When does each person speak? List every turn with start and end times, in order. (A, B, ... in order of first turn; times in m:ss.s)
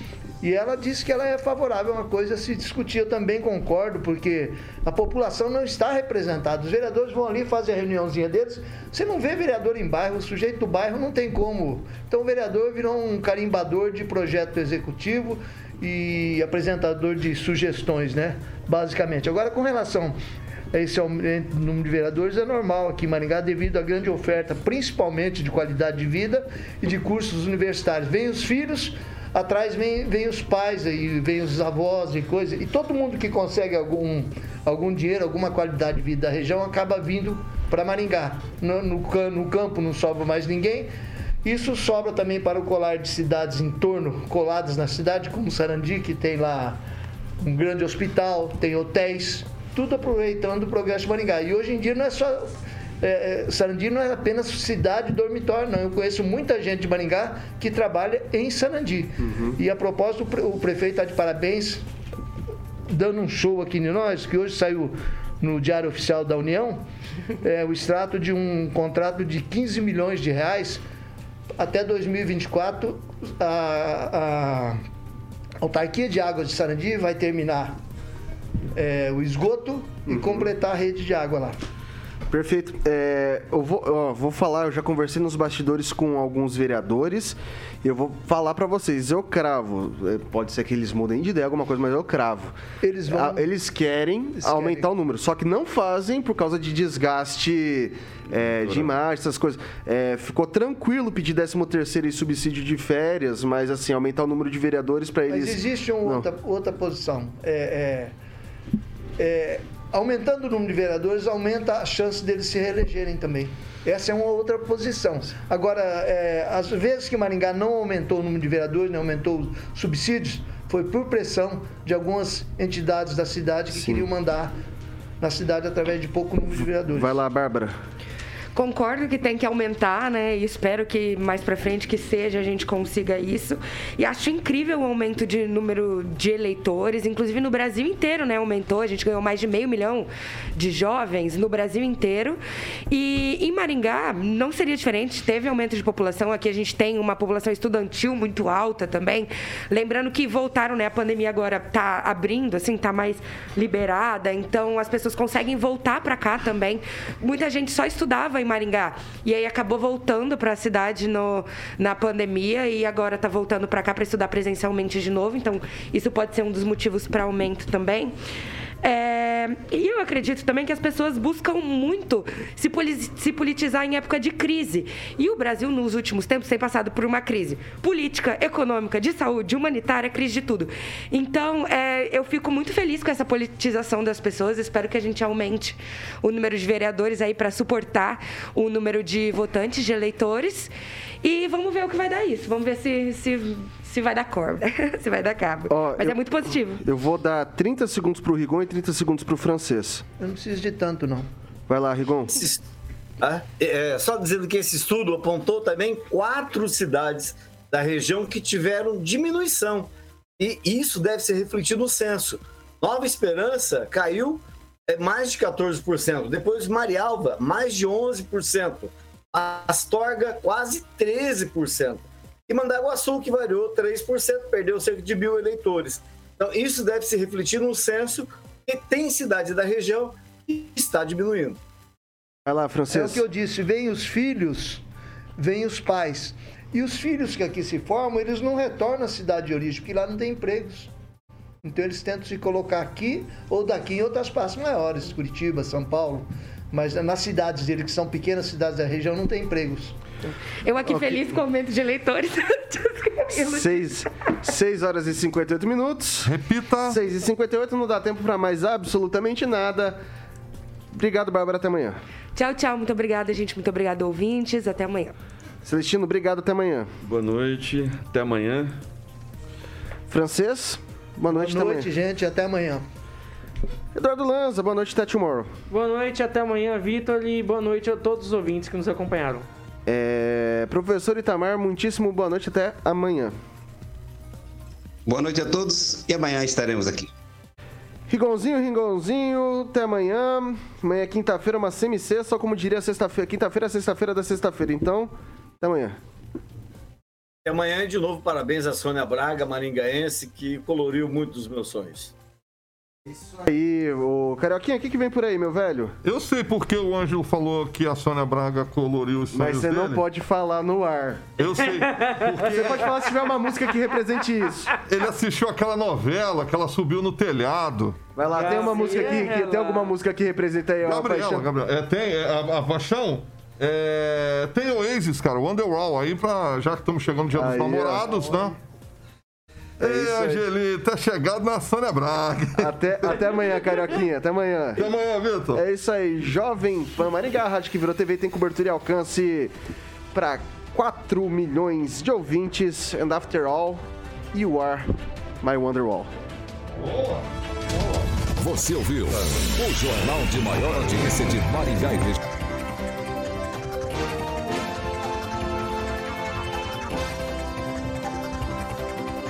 0:00.4-0:20.1 A
0:20.7-0:40.9 A
0:41.4-0:46.8 A
0:47.4-0:52.5 A
0:53.0-1:01.8 A
0:59.2-0:59.6 B
1:02.9-1:06.8 A
1:07.4-1:10.8 A
1:11.6-1:14.8 A
1:15.6-1:17.8 A
1:18.7-1:21.5 A
1:20.1-1:20.5 B
1:22.3-1:32.6 B
1:32.8-1:33.4 A
1:33.1-1:46.3 B
1:34.4-1:34.8 A
1:38.6-1:38.9 C
1:45.3-1:48.1 A
1:49.2-2:04.5 A
2:03.7-2:04.1 B
2:05.2-2:07.2 A
2:06.5-2:07.7 B
2:08.5-2:22.4 D
2:22.9-2:48.1 D
2:48.8-3:10.7 D
3:11.2-3:16.8 D
3:15.7-3:16.2 B
3:16.8-3:20.0 B
3:20.2-3:21.3 A
3:21.7-3:22.4 B
3:23.2-3:51.6 E
3:52.4-3:53.2 B
3:52.9-3:54.8 A
3:55.4-4:00.9 A
4:01.6-4:10.0 A
4:10.6-4:13.9 D
4:10.9-4:11.2 B
4:13.3-4:16.3 B
4:16.2-4:17.0 F
4:16.9-4:20.0 B
4:20.9-4:22.0 B
4:22.3-4:25.2 D
4:25.6-4:26.9 B
4:27.0-4:28.7 C
4:30.1-4:31.9 B
4:31.3-4:32.8 A
4:33.9-4:35.5 B
4:35.7-4:39.5 G
4:39.8-4:43.3 B
4:45.0-4:47.1 H
4:48.1-4:56.0 B
4:57.4-5:02.1 E
5:03.1-5:06.0 B
5:06.0-5:10.0 F
5:09.3-5:11.3 B
5:11.4-5:12.8 F
5:11.6-5:12.6 G
5:12.5-5:14.7 B
5:14.9-5:18.1 F
5:18.1-5:21.5 B
5:18.3-5:20.0 G
5:18.4-5:19.1 A
5:20.8-5:28.6 F
5:27.3-5:28.0 B
5:29.8-5:32.7 F
5:29.8-5:30.4 B
5:32.5-5:34.9 B
5:34.8-5:35.6 F
5:35.5-5:39.5 B
5:40.1-5:46.1 B
5:46.8-5:48.0 F
5:48.4-5:52.2 I